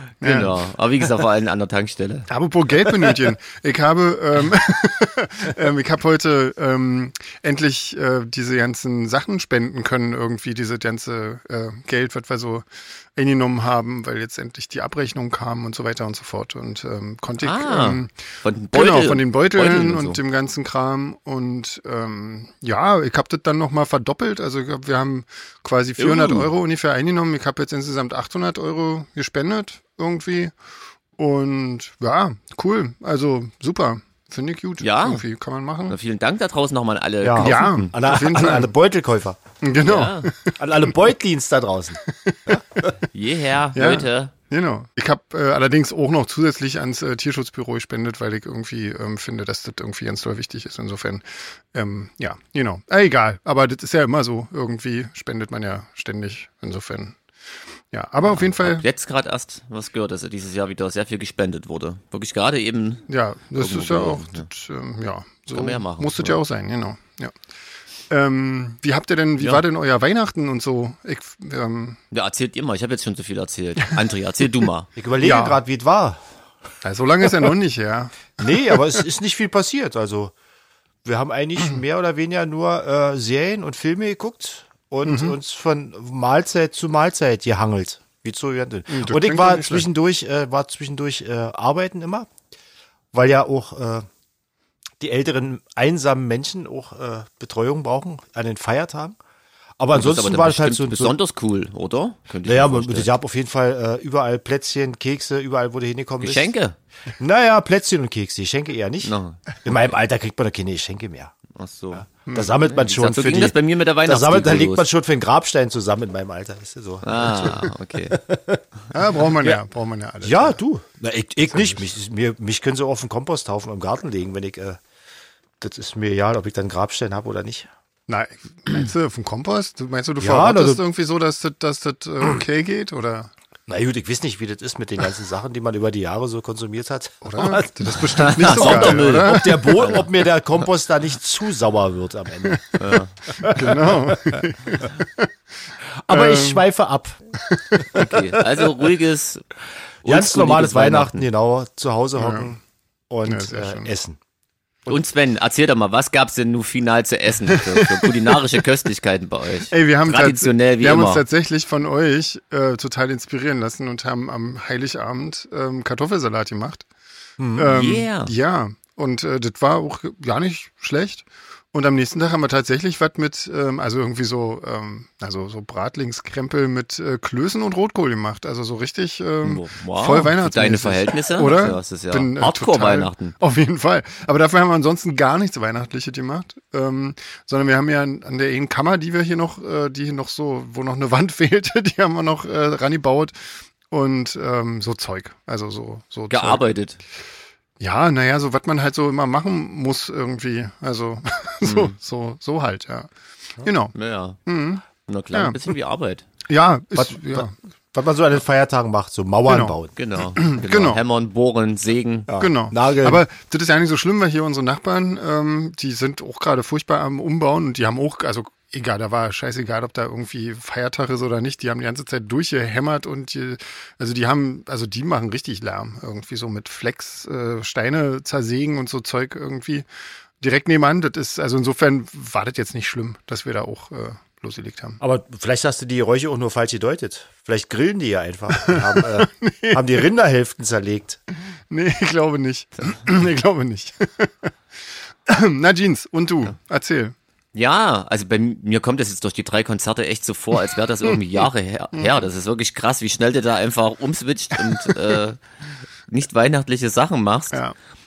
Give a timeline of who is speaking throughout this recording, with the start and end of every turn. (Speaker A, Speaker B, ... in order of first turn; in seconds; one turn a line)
Speaker A: 0.2-0.6
Speaker B: 0.2-2.3
Speaker A: 2.3-18.1
Speaker B: 17.4-20.2
Speaker A: 18.7-30.5
Speaker B: 26.0-26.5
Speaker A: 31.2-36.0
Speaker B: 34.8-35.2
Speaker B: 35.9-38.0
Speaker C: 37.2-39.4
Speaker A: 37.4-38.7
Speaker A: 39.6-40.6
Speaker B: 39.8-40.3
Speaker C: 40.6-42.0
Speaker A: 42.2-42.6
Speaker B: 43.0-44.3
Speaker A: 43.7-57.1
Speaker A: 57.9-58.8
Speaker B: 58.2-63.0
Speaker A: 63.1-67.3
Speaker B: 63.5-64.5
Speaker B: 65.5-66.4
Speaker A: 68.1-72.0
Speaker B: 69.4-69.6
Speaker B: 72.1-74.9
Speaker C: 75.0-76.2
Speaker A: 75.2-75.6
Speaker A: 76.8-79.0
Speaker C: 78.4-80.3
Speaker C: 81.0-92.3
Speaker A: 85.0-85.4
Speaker A: 88.9-89.9
Speaker C: 93.1-94.0
Speaker C: 95.0-99.2
Speaker C: 99.8-101.2
Speaker B: 99.9-103.1
Speaker C: 102.4-106.5
Speaker B: 106.2-106.8
Speaker C: 107.2-111.3
Speaker B: 109.0-109.4
Speaker B: 111.5-114.8
Speaker A: 112.2-112.6
Speaker C: 112.3-118.6
Speaker B: 117.0-118.2
Speaker A: 118.9-120.6
Speaker C: 119.3-119.6
Speaker C: 120.2-124.8
Speaker A: 121.5-121.8
Speaker C: 125.6-127.7
Speaker A: 128.1-133.3
Speaker C: 130.2-130.8
Speaker C: 133.7-144.4
Speaker A: 137.2-139.9
Speaker B: 138.1-140.1
Speaker A: 142.5-142.7
Speaker B: 142.8-143.1
Speaker A: 143.4-145.3
Speaker C: 146.0-147.2
Speaker A: 146.1-146.6
Speaker A: 147.4-147.9
Speaker C: 147.7-148.3
Speaker B: 147.9-149.4
Speaker B: 150.0-151.2
Speaker C: 150.0-154.2
Speaker A: 152.2-152.5
Speaker A: 153.2-153.9
Speaker B: 154.9-161.2
Speaker A: 157.5-158.1
Speaker A: 159.7-166.8
Speaker C: 167.4-167.7
Speaker A: 167.5-193.3
Speaker B: 167.6-168.3
Speaker B: 179.4-183.3
Speaker A: 193.9-196.7
Speaker B: 196.3-197.0
Speaker A: 197.8-203.1
Speaker B: 201.6-201.9
Speaker A: 203.6-203.9
Speaker B: 203.9-204.4
Speaker A: 204.4-205.7
Speaker B: 205.0-206.2
Speaker A: 206.5-207.5
Speaker C: 206.9-209.9
Speaker A: 209.5-209.8
Speaker B: 209.9-212.3
Speaker A: 210.3-211.0
Speaker C: 212.3-213.2
Speaker A: 212.4-229.8
Speaker A: 230.4-235.0
Speaker C: 235.0-241.2
Speaker A: 238.6-240.0
Speaker A: 241.7-244.5
Speaker A: 245.2-247.1
Speaker B: 247.5-255.4
Speaker B: 256.1-257.6